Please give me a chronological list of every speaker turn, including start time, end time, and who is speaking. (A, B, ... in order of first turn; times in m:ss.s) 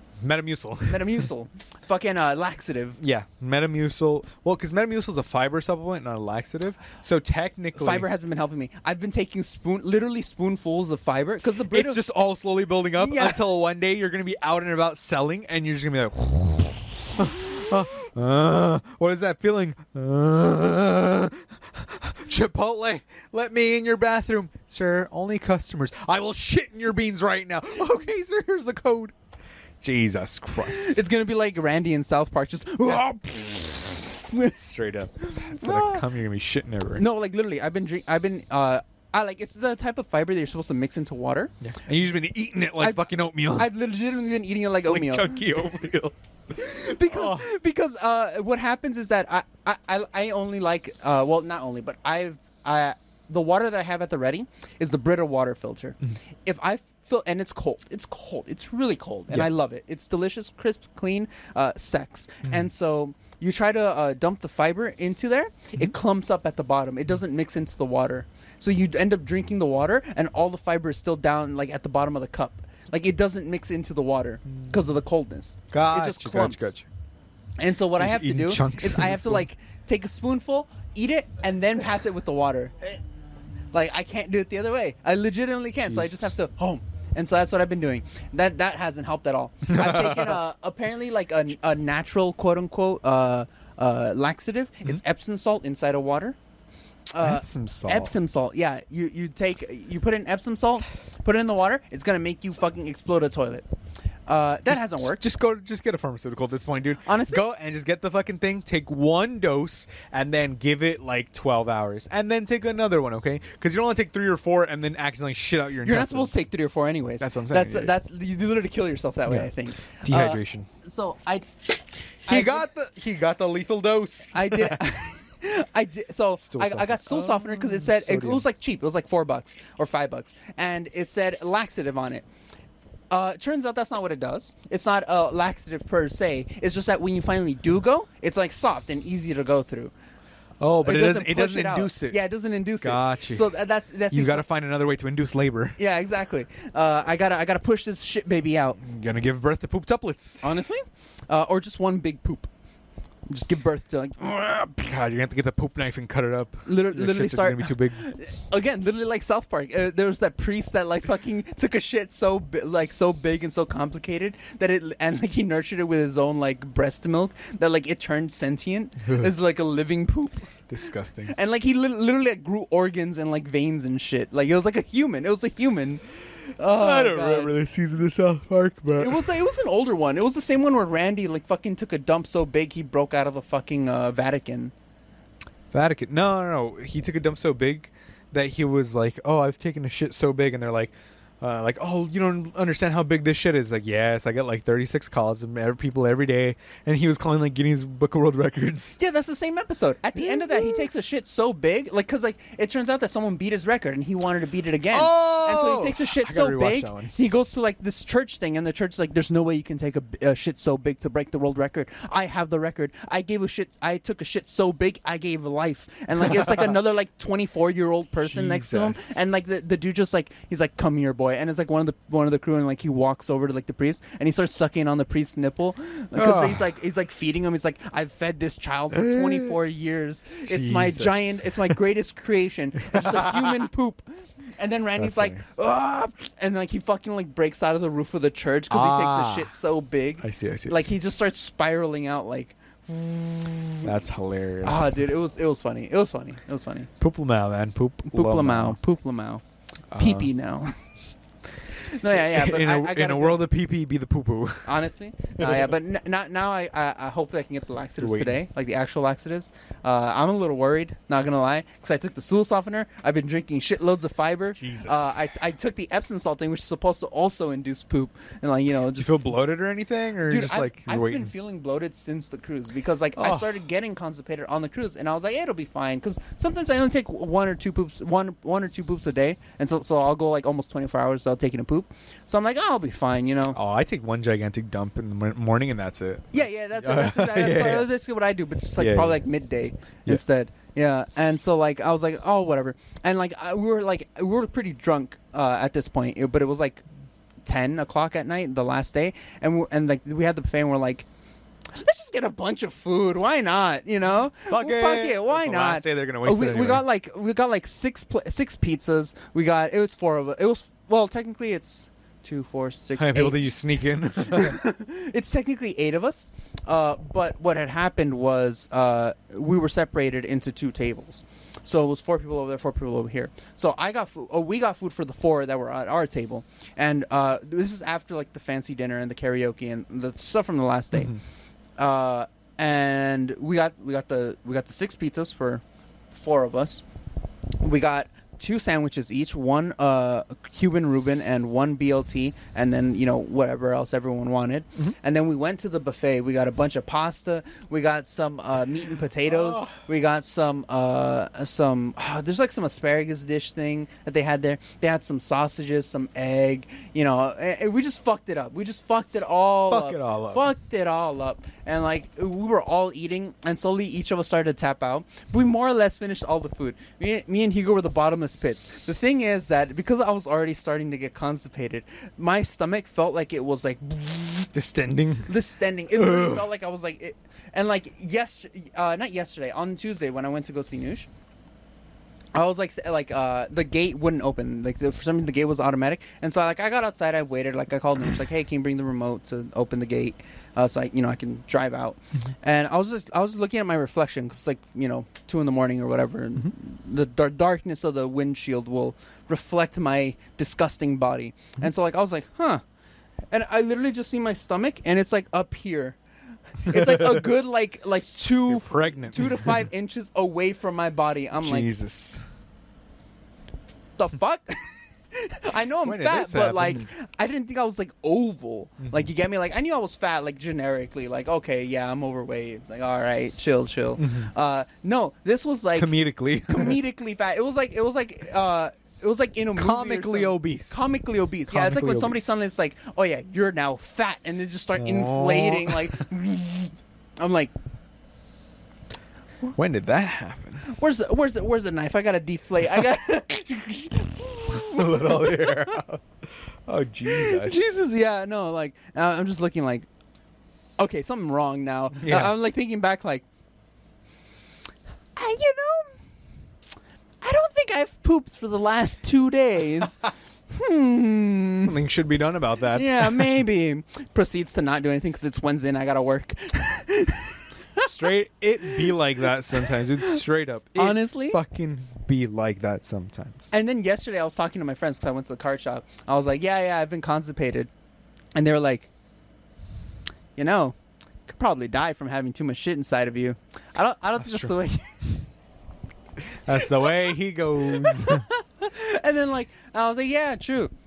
0:00.2-0:01.3 A
0:00.9-0:03.0 B
0:03.0-0:08.1 A
0:07.7-0:12.0 B
0:11.7-0:29.1 A
0:13.0-0:13.4 B
0:29.8-0:31.0 A
0:30.6-0:34.6 B
0:34.4-0:37.0 A
0:35.2-0:36.0 B
0:36.9-0:41.5 B
0:41.6-0:43.7 A
0:42.8-0:45.5 B
0:44.8-0:47.5 A
0:46.6-1:16.7 B
1:15.7-1:16.9 A
1:17.6-1:23.0 B
1:18.0-1:19.4 A
1:23.7-1:36.4 B
1:25.8-1:26.3 A
1:29.7-1:30.4 A
1:37.1-1:43.6 B
1:37.2-1:38.1 A
1:44.3-1:45.2 B
1:44.7-1:56.4 A
1:47.0-1:47.4 B
1:55.8-2:01.5 B
1:57.2-1:57.9 A
1:59.2-2:00.7 A
2:02.2-2:02.6 B
2:02.3-2:05.0 A
2:04.3-2:12.2 B
2:06.4-2:08.4 A
2:13.1-2:19.9 B
2:20.6-2:22.2 A
2:20.8-2:24.4 B
2:22.8-2:23.5 A
2:24.1-2:25.8 A
2:25.8-2:28.8 B
2:28.8-2:30.4 A
2:30.4-2:32.5 B
2:33.3-2:34.4 B
2:34.3-2:38.0 A
2:36.6-2:50.5 B
2:49.0-2:49.3 A
2:50.7-2:51.3 A
2:51.3-2:57.5 B
2:56.6-2:59.4 A
2:59.0-3:04.7 B
3:05.7-3:19.0 A
3:19.0-4:03.9 B
3:20.2-3:20.9 A
3:24.9-3:27.1 A
3:38.2-3:39.2 A
3:46.1-3:46.7 A
3:48.9-3:49.5 A
3:50.4-3:51.7 A
3:52.9-3:53.6 A
3:55.0-3:55.4 A
3:58.7-3:59.5 A
4:00.2-4:00.9 A
4:03.8-4:05.0 A
4:04.6-4:06.9 B
4:07.0-4:08.8 A
4:08.1-4:09.4 B
4:09.9-4:10.3 A
4:10.0-4:10.7 B
4:11.8-4:13.4 B
4:12.1-4:14.7 A
4:14.6-4:29.3 B
4:15.4-4:15.7 A
4:18.0-4:18.4 A
4:24.6-4:25.2 A
4:28.9-4:31.3 A
4:30.2-4:43.6 B
4:33.2-4:33.5 A
4:43.5-4:47.9 A
4:46.3-4:56.8 B
4:48.8-4:49.2 A
4:57.4-5:01.0 B
5:01.7-5:13.4 B
5:04.4-5:06.8 A
5:13.0-5:14.6 A
5:14.2-5:31.2 B
5:30.9-5:31.2 A
5:31.8-5:35.6 B
5:36.2-5:36.8 B
5:37.6-6:14.5 B
5:49.2-5:49.7 A
5:59.7-6:00.4 A
6:14.5-6:15.3 A
6:15.2-6:21.1 B
6:15.9-6:16.5 A
6:22.3-6:42.6 B
6:43.3-6:46.0 B
6:46.6-6:51.7 B
6:46.7-6:47.3 A
6:48.5-6:49.6 A
6:51.4-6:52.2 A
6:54.0-7:05.9 B
6:55.8-6:56.9 A
7:04.0-7:04.3 A
7:05.8-7:06.8 A
7:06.5-7:17.5 B
7:09.6-7:10.9 A
7:11.5-7:12.3 A
7:14.8-7:16.0 A
7:19.5-7:20.6 A
7:20.6-7:25.8 B
7:24.5-7:26.0 A
7:26.6-7:27.7 A
7:27.0-7:29.9 B
7:30.8-7:33.2 B
7:32.0-7:32.3 A
7:35.2-7:36.0 B
7:37.2-7:41.7 B
7:41.6-7:43.4 A
7:42.7-7:47.9 B
7:47.8-7:53.5 A
7:49.6-7:50.2 B
7:50.8-7:51.4 B
7:53.5-7:57.7 B
7:58.4-7:58.9 B
8:00.4-8:00.7 B
8:01.3-8:04.9 B
8:04.2-8:04.5 A
8:06.2-8:08.2 A
8:07.6-8:10.7 B